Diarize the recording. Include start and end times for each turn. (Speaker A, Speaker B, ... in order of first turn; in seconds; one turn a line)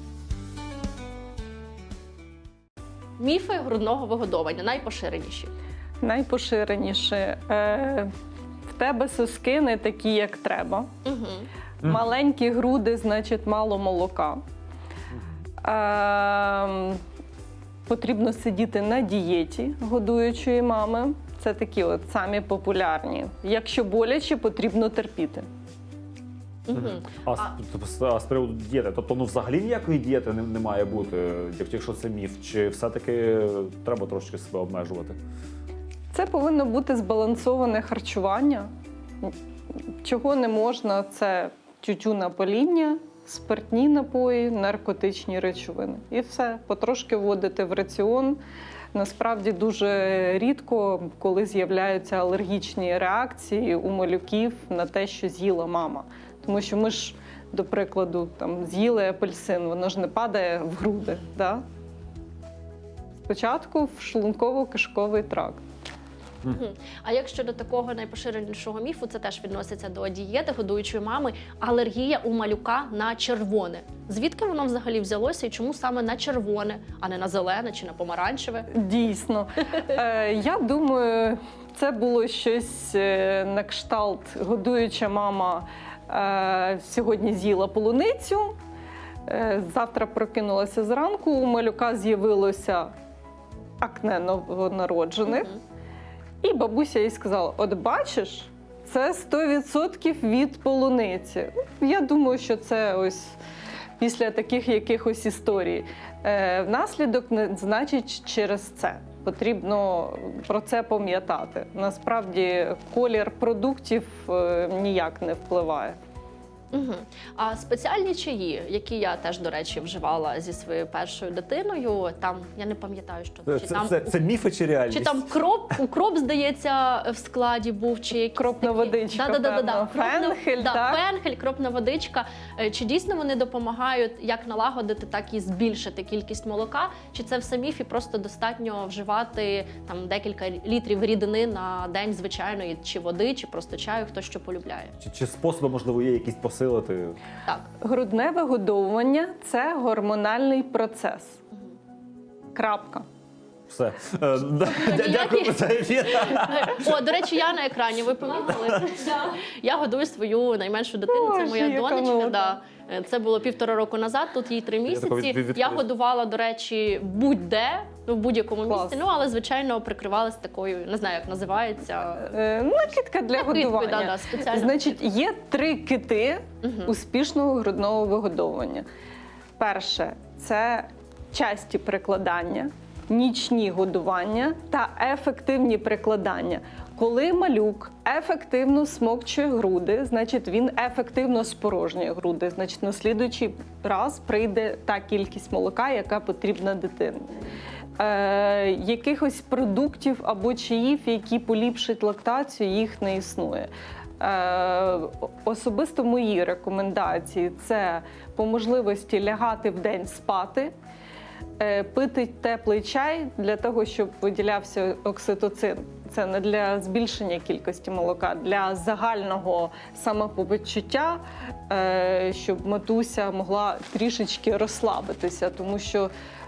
Speaker A: 3.2-5.5
Speaker B: 6.0-8.1
Speaker B: 8.7-10.9
Speaker A: 11.0-11.5
Speaker B: 11.8-14.4
Speaker B: 15.6-17.0
Speaker B: 17.9-25.5
Speaker A: 26.7-27.5
Speaker C: 26.7-35.2
Speaker B: 36.1-38.7
Speaker B: 40.0-48.4
Speaker B: 48.9-61.6
Speaker B: 63.2-65.6
Speaker A: 66.5-78.7
Speaker B: 78.8-88.5
Speaker B: 89.3-92.9
Speaker B: 93.8-95.5
Speaker A: 95.3-95.5
Speaker B: 96.4-103.4
Speaker B: 104.0-116.0
Speaker A: 116.7-124.2
Speaker C: 123.5-125.2
Speaker A: 124.9-144.9
Speaker B: 128.3-131.0
Speaker C: 145.0-147.2
Speaker B: 147.8-151.4
Speaker B: 152.5-153.0
Speaker C: 153.7-157.2
Speaker A: 154.6-172.4
Speaker B: 161.1-162.6
Speaker C: 164.8-165.8
Speaker B: 168.7-169.0
Speaker B: 172.2-178.8
Speaker A: 173.3-175.0
Speaker A: 176.6-176.9
Speaker B: 179.6-197.2
Speaker B: 198.0-210.7
Speaker B: 211.6-226.1